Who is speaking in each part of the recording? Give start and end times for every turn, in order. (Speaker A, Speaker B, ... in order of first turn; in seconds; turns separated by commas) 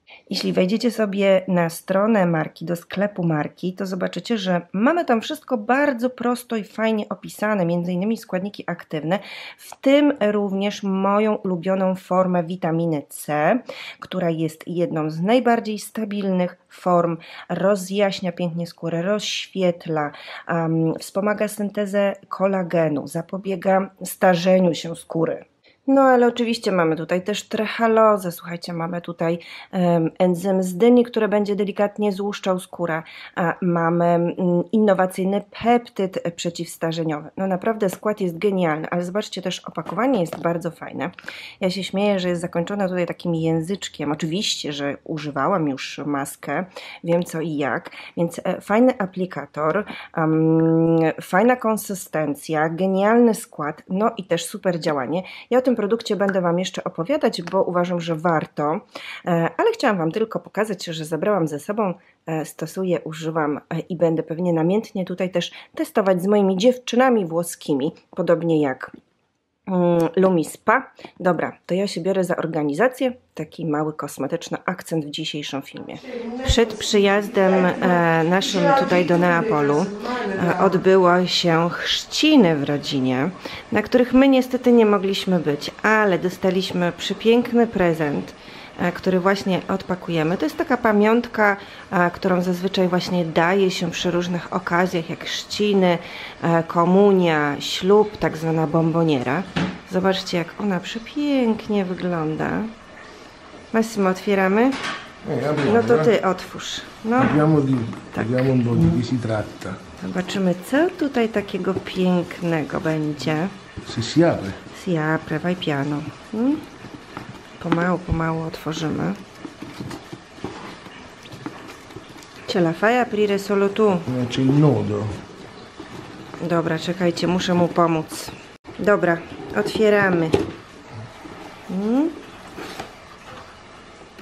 Speaker A: 0.3-68.9, Speaker A: 69.7-102.7, Speaker B: 78.5-80.7, Speaker A: 103.7-104.8, Speaker B: 105.2-106.1, Speaker A: 105.6-107.4, Speaker B: 107.2-109.8, Speaker A: 108.1-109.0, Speaker A: 110.0-113.5, Speaker B: 113.8-114.6, Speaker A: 114.7-116.6, Speaker A: 117.6-119.2, Speaker A: 122.5-124.1, Speaker B: 124.0-125.1, Speaker A: 126.4-130.3, Speaker A: 131.7-132.1